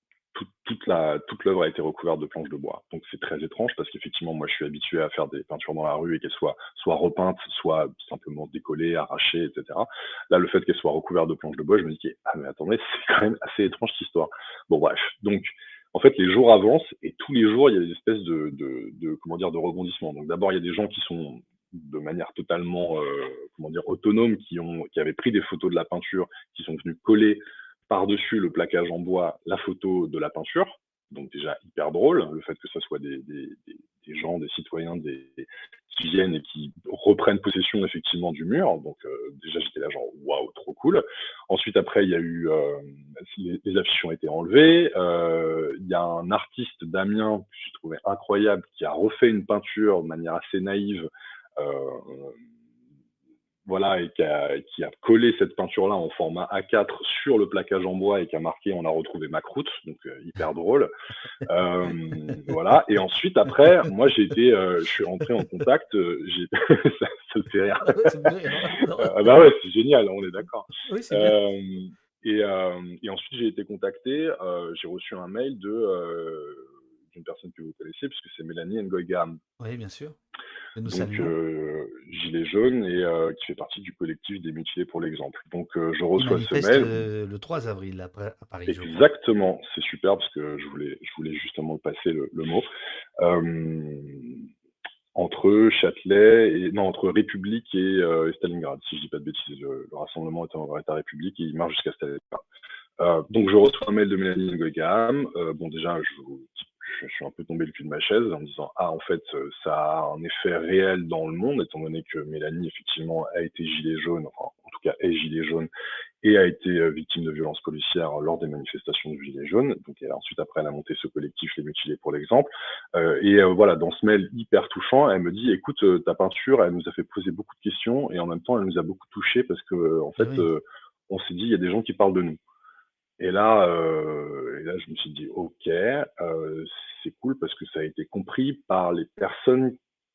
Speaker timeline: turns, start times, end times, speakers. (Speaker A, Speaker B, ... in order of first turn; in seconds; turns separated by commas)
Speaker A: 0.3-52.4, Speaker A: 53.7-60.9, Speaker A: 61.5-79.4, Speaker B: 67.8-69.4, Speaker B: 70.8-71.4, Speaker B: 79.6-80.2, Speaker B: 80.8-81.3, Speaker A: 80.9-87.0, Speaker B: 86.2-89.0, Speaker A: 88.7-92.7, Speaker A: 93.2-94.5, Speaker A: 95.1-102.4, Speaker A: 103.0-115.7, Speaker A: 116.2-132.4, Speaker B: 130.2-130.5, Speaker A: 133.2-139.8